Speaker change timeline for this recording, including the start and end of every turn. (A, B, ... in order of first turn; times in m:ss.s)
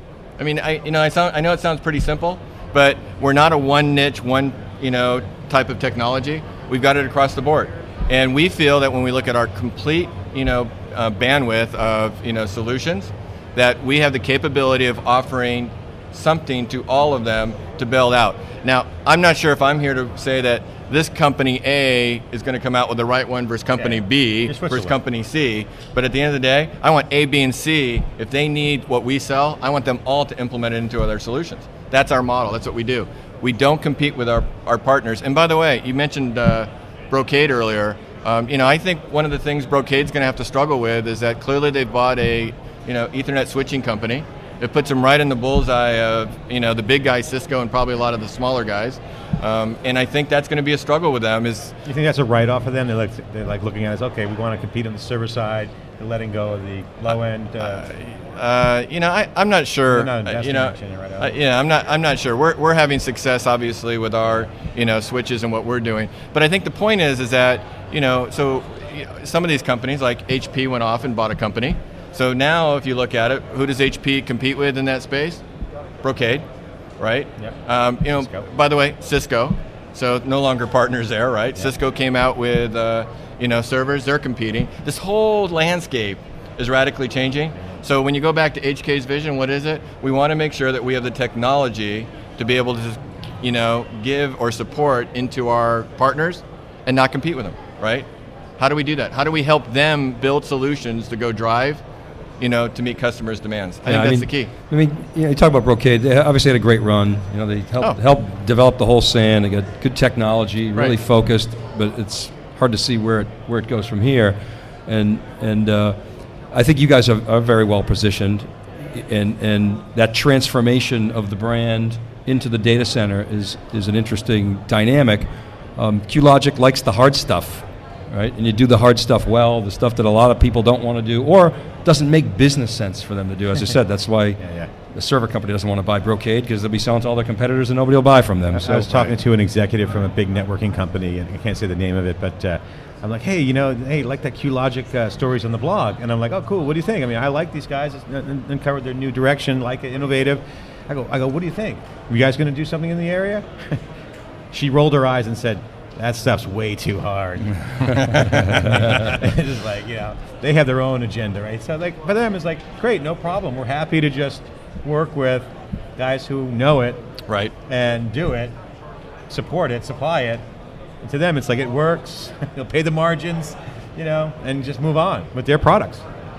0:00.4-0:51.7 A
0:23.8-0:25.0 B
0:51.8-0:57.8 B
0:57.6-1:15.4 A
0:59.9-1:01.4 B
1:16.0-1:16.4 A
1:17.0-1:38.1 A
1:18.1-1:18.4 B
1:38.6-1:41.8 A
1:42.4-1:44.5 A
1:43.8-1:56.0 C
1:56.5-2:19.1 C
2:14.4-2:14.7 B
2:18.5-2:33.8 B
2:34.5-2:47.0 B
2:47.3-2:47.5 A
2:47.7-2:48.5 B
2:49.3-2:50.4 B
2:51.0-2:56.1 B